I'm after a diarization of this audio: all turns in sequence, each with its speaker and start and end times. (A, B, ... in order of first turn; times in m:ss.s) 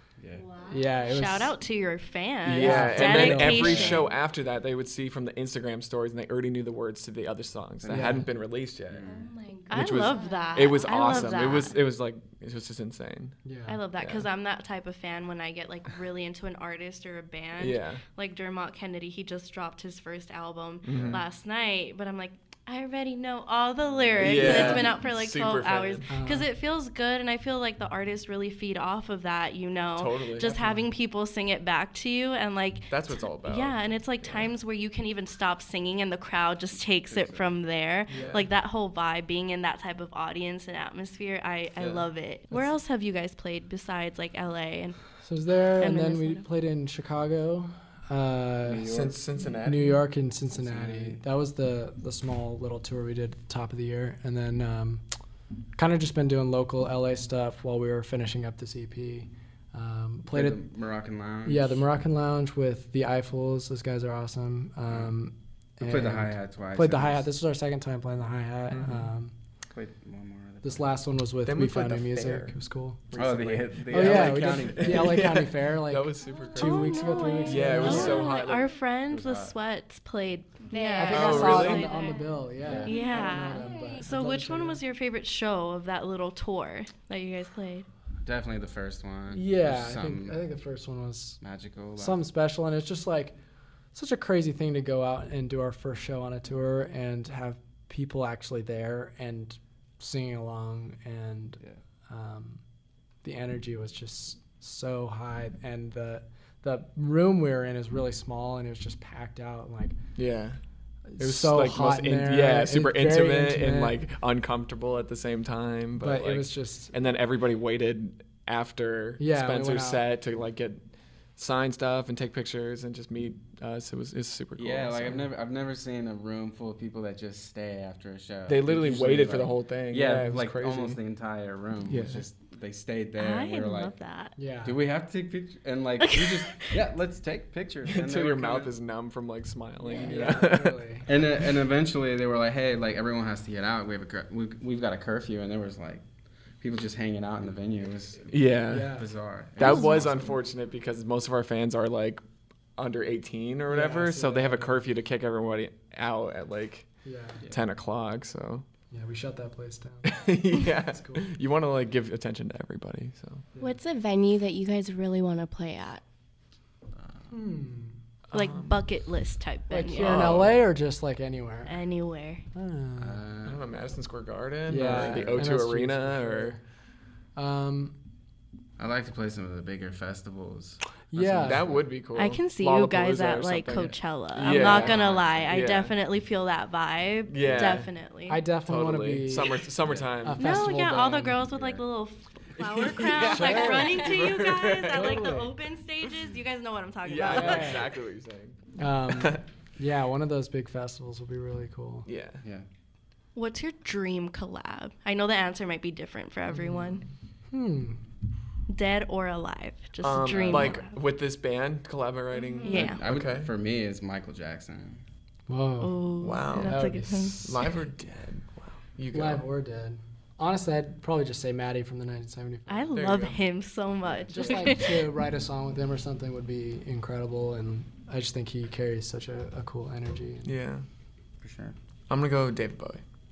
0:00.2-0:00.5 A
0:00.7-0:01.6 B
0:01.0-0:04.1 C
0:02.4-0:09.1 D
0:02.6-0:03.9 B
0:03.6-0:04.0 A
0:07.8-0:08.3 A
0:07.9-0:08.3 B
0:08.9-0:09.4 A
0:09.1-0:10.7 E
0:09.7-0:11.8 C
0:09.7-0:13.4 D
0:13.4-0:13.8 B
0:13.7-0:45.0 C
0:14.0-0:14.3 D
0:17.6-0:18.0 D
0:20.8-0:21.2 D
0:20.9-0:21.2 A
0:23.9-0:24.9 A
0:24.2-0:26.1 D
0:26.1-0:26.5 B
0:30.0-0:30.5 D
0:30.4-0:30.9 B
0:32.9-0:34.5 D
0:37.1-0:37.4 A
0:38.1-0:38.4 B
0:38.1-0:38.5 D
0:45.2-0:48.9 B
0:45.8-0:46.4 C
0:48.6-0:49.2 A
0:48.9-0:50.0 D
0:49.6-0:55.0 B
0:50.5-0:51.2 A
0:55.8-1:00.6 B
1:00.3-1:01.8 A
1:01.4-1:09.4 B
1:05.8-1:07.3 A
1:08.7-1:09.1 D
1:09.7-1:10.9 A
1:10.6-1:13.1 B
1:11.4-1:12.6 D
1:13.1-1:18.7 D
1:13.1-1:15.3 A
1:13.9-1:18.3 B
1:16.6-1:22.2 C
1:19.1-1:19.6 A
1:20.7-1:22.2 E
1:21.0-1:24.8 B
1:21.1-1:21.9 D
1:22.6-1:23.0 A
1:22.8-1:27.9 C
1:22.9-1:23.8 E
1:28.2-1:30.4 A
1:29.3-1:31.4 B
1:31.4-1:32.2 A
1:32.0-1:33.4 B
1:33.9-1:42.6 B
1:43.2-1:50.0 B
1:50.2-1:50.6 D
1:51.1-1:54.0 B
1:51.2-2:00.9 D
1:56.0-1:56.9 B
1:59.2-2:00.0 B
2:01.4-2:05.3 D
2:04.6-2:13.9 A
2:08.5-2:11.0 D
2:11.9-2:12.2 D
2:13.2-2:14.3 C
2:14.4-2:14.8 B
2:14.6-2:18.7 A
2:16.0-2:16.7 C
2:17.8-2:20.8 D
2:19.9-2:20.3 A
2:20.0-2:21.1 B
2:21.0-2:26.0 A
2:26.6-2:30.4 A
2:28.3-2:29.0 D
2:28.7-2:29.1 B
2:29.6-2:32.2 D
2:29.6-2:29.9 C
2:32.8-2:36.9 D
2:33.7-2:34.8 B
2:37.0-2:37.4 B
2:37.5-2:38.7 D
2:38.9-2:41.3 B
2:40.0-2:43.4 D
2:43.6-2:46.0 E
2:47.0-2:47.3 A
2:47.3-2:48.0 B
2:48.3-2:48.8 D
2:48.3-2:50.4 C
2:49.7-2:51.7 B
2:49.9-2:50.6 D
2:51.7-2:52.4 C
2:52.5-2:53.3 B
2:53.0-2:53.6 A
2:53.4-2:56.6 D
2:54.7-2:56.6 B
2:54.8-2:55.4 A
2:57.4-2:58.0 B
2:58.8-3:00.8 A
3:01.1-3:01.7 B
3:01.2-3:05.9 D
3:01.4-3:01.9 A
3:02.1-3:08.4 C
3:04.4-3:05.6 A
3:07.3-3:07.9 D
3:08.3-3:09.7 B
3:08.7-3:10.8 D
3:09.8-3:10.2 A
3:10.2-3:11.4 B
3:10.4-3:17.9 C
3:11.5-3:11.8 A
3:12.6-3:15.2 D
3:13.3-3:13.9 B
3:14.9-3:15.5 B
3:17.0-3:19.4 D
3:17.3-3:17.9 B
3:18.8-3:22.1 B
3:22.1-3:22.4 D
3:23.4-3:27.0 C
3:27.5-3:28.0 B
3:28.7-3:31.0 C
3:30.0-3:33.5 D
3:32.6-3:33.0 C
3:32.7-3:35.0 A
3:35.5-3:36.0 B
3:35.8-3:37.7 C
3:36.2-3:39.4 D
3:36.6-3:37.6 B
3:39.1-3:43.0 B
3:42.7-3:45.1 C
3:42.9-3:43.4 D
3:44.3-3:50.6 B
3:50.4-3:50.8 D
3:51.4-3:51.8 A
3:52.1-3:53.0 D